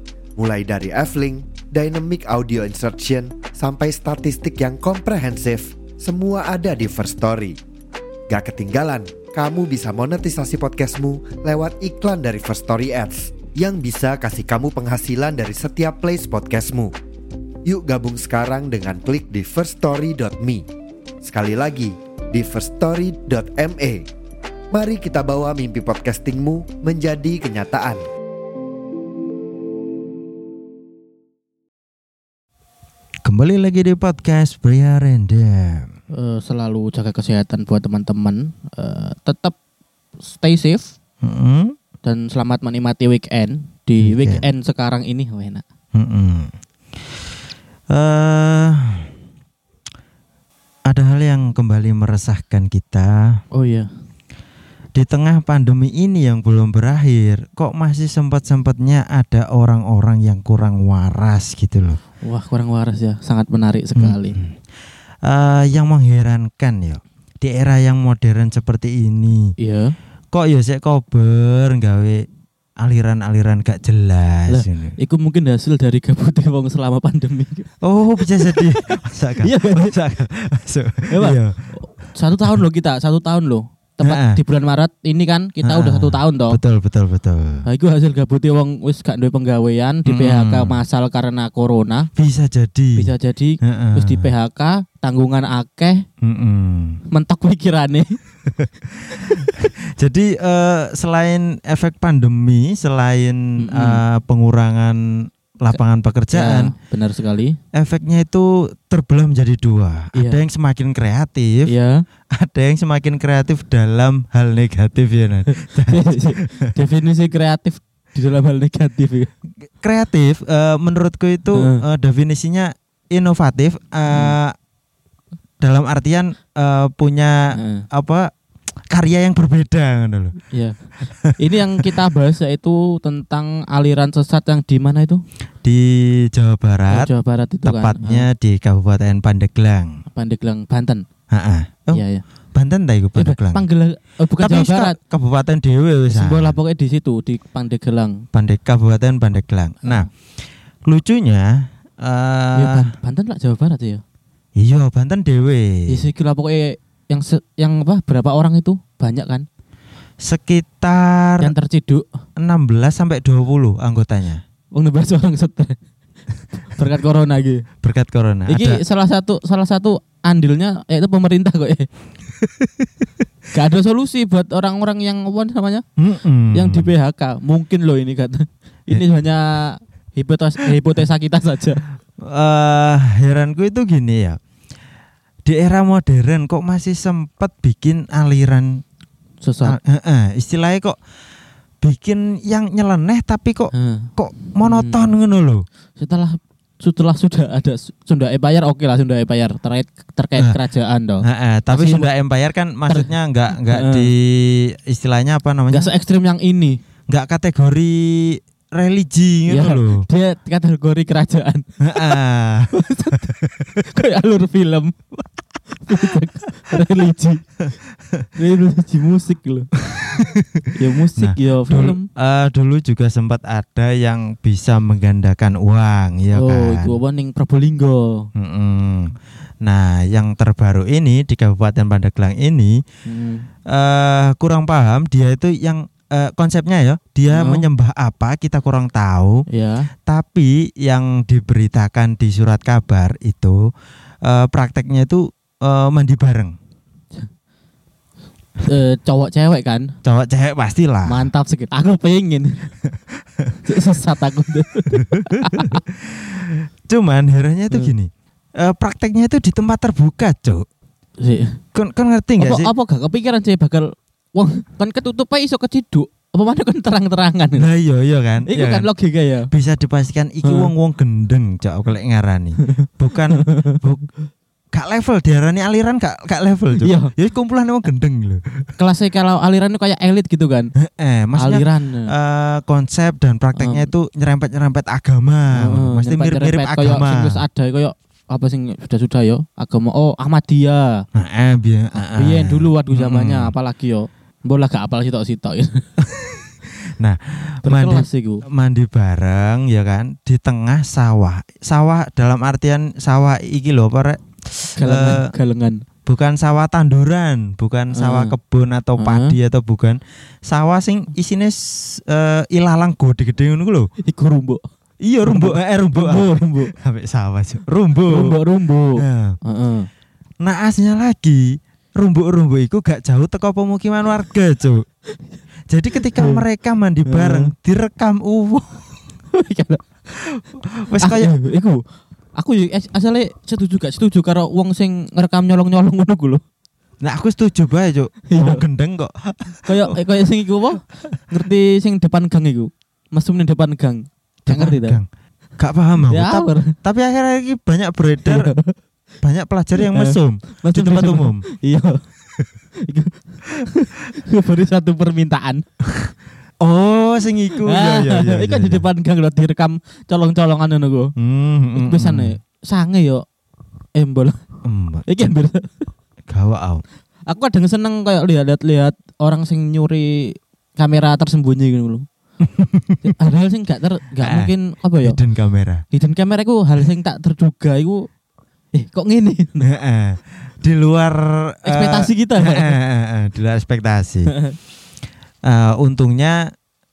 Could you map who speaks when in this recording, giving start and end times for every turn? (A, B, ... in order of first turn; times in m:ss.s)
0:00.4-0:07.6 A
0:08.3-0:16.9 A
0:17.7-0:20.6 A
0:21.2-0:24.1 A
0:24.7-0:28.0 A
0:33.2-0:35.9 B
0:36.1-0:39.6 C
0:40.2-0:40.9 C
0:41.2-0:41.8 B
0:42.0-0:45.6 C
0:44.0-0:44.5 B
0:46.0-0:46.5 B
0:47.9-0:49.1 B
0:50.9-0:53.4 B
0:53.5-0:53.9 C
0:54.9-1:02.0 B
1:02.2-1:04.4 C
1:04.0-1:04.5 B
1:05.2-1:09.5 B
1:09.6-1:10.0 C
1:10.3-1:12.2 B
1:12.8-1:15.0 B
1:14.5-1:17.7 C
1:17.8-1:21.8 B
1:18.4-1:18.8 C
1:19.4-1:20.0 C
1:21.1-1:26.6 C
1:24.0-1:24.4 B
1:25.6-1:27.6 B
1:27.7-1:32.1 C
1:30.1-1:30.8 B
1:32.2-1:33.1 B
1:33.0-1:36.1 C
1:33.6-1:34.3 B
1:36.2-1:37.0 B
1:37.1-1:38.2 C
1:38.5-1:46.7 B
1:43.6-1:44.0 C
1:46.3-1:47.6 C
1:47.7-1:51.8 B
1:50.1-1:50.4 C
1:51.7-1:52.0 C
1:52.3-1:56.7 B
1:55.5-1:59.3 C
1:59.7-2:04.6 B
2:01.5-2:01.8 C
2:04.1-2:04.4 C
2:05.6-2:08.3 B
2:07.6-2:07.8 C
2:08.9-2:10.4 B
2:10.5-2:10.8 C
2:11.0-2:11.3 B
2:11.3-2:15.2 C
2:15.6-2:17.1 B
2:16.9-2:18.3 C
2:17.6-2:20.0 B
2:20.1-2:21.1 C
2:21.3-2:23.6 B
2:21.9-2:22.2 C
2:23.2-2:25.0 C
2:24.4-2:26.6 B
2:26.1-2:28.2 C
2:28.3-2:30.1 B
2:29.8-2:30.1 C
2:30.9-2:32.9 B
2:32.6-2:34.0 C
2:34.6-2:36.1 B
2:35.9-2:39.5 C
2:40.2-2:41.5 B
2:41.4-2:42.0 C
2:42.4-2:44.4 B
2:44.7-2:45.8 C
2:46.6-2:47.6 C
2:47.8-2:48.8 B
2:48.5-2:51.9 C
2:52.4-2:53.1 B
2:53.5-2:55.8 C
2:56.0-2:56.9 B
2:56.5-3:01.8 C
3:02.2-3:04.4 B
3:05.4-3:08.8 B
3:09.4-3:09.8 C
3:09.6-3:11.0 B
3:11.8-3:15.6 B
3:13.7-3:15.1 C
3:16.0-3:22.1 C
3:21.2-3:25.9 B
3:22.9-3:24.1 C
3:25.7-3:26.8 C
3:27.1-3:30.0 B
3:29.5-3:32.2 C
3:31.8-3:33.7 B
3:32.7-3:37.4 C
3:38.4-3:39.7 C
3:39.9-3:47.0 B
3:40.7-3:42.1 C
3:46.3-3:48.3 C
3:48.4-3:52.8 B
3:53.1-3:53.5 C
3:53.7-3:59.4 B
3:57.3-3:57.7 C
3:59.5-3:59.9 C
4:00.1-4:03.7 B
4:04.2-4:06.6 B
4:08.6-4:10.0 C
4:10.0-4:11.3 B
4:11.0-4:12.7 C
4:12.9-4:13.6 B
4:13.6-4:15.8 C
4:15.3-4:20.6 B
4:21.2-4:21.6 C
4:21.7-4:22.7 B
4:22.4-4:27.7 C
4:27.6-4:28.9 B
4:28.5-4:29.5 C
4:29.5-4:34.1 B
4:30.4-4:30.7 C
4:32.6-4:33.8 C
4:34.7-4:38.7 B
4:36.8-4:37.1 C
4:38.8-4:40.7 C
4:40.8-4:47.4 B
4:41.3-4:42.1 C
4:43.6-4:43.9 C
4:45.6-4:51.0 C
4:51.1-4:53.6 B
4:52.0-4:55.9 C
4:56.0-4:56.4 B
4:57.0-5:05.3 B
4:57.6-4:58.4 C
5:04.8-5:05.8 C
5:06.1-5:13.9 B
5:07.9-5:08.4 C
5:09.0-5:09.4 C
5:14.0-5:14.6 C
5:15.0-5:18.4 B
5:15.2-5:16.7 C
5:18.1-5:19.9 C
5:19.0-5:19.4 B
5:20.4-5:24.8 B
5:25.7-5:29.0 B
5:26.0-5:26.4 C
5:27.0-5:27.5 C
5:29.3-5:30.2 C
5:30.2-5:31.3 B
5:31.0-5:31.8 C
5:32.4-5:36.4 C
5:37.0-5:40.0 B
5:38.3-5:38.6 C
5:39.6-5:45.0 C
5:44.5-5:45.1 B
5:45.6-5:48.5 B
5:46.1-5:46.8 C
5:48.2-5:48.8 C
5:49.2-5:51.5 B
5:49.8-5:52.0 C
5:52.8-5:55.7 C
5:56.6-5:58.9 B
5:57.5-6:01.1 C
6:01.2-6:02.4 B
6:01.8-6:03.2 C
6:04.0-6:04.4 C
6:04.6-6:05.3 B
6:05.1-6:05.9 C
6:06.3-6:06.8 B
6:07.3-6:12.1 C
6:12.4-6:13.1 B
6:13.0-6:15.2 C
6:14.2-6:15.8 B
6:15.9-6:18.1 C
6:18.7-6:19.7 C
6:19.6-6:24.3 B
6:21.6-6:22.8 C
6:24.3-6:24.6 C
6:25.5-6:26.5 B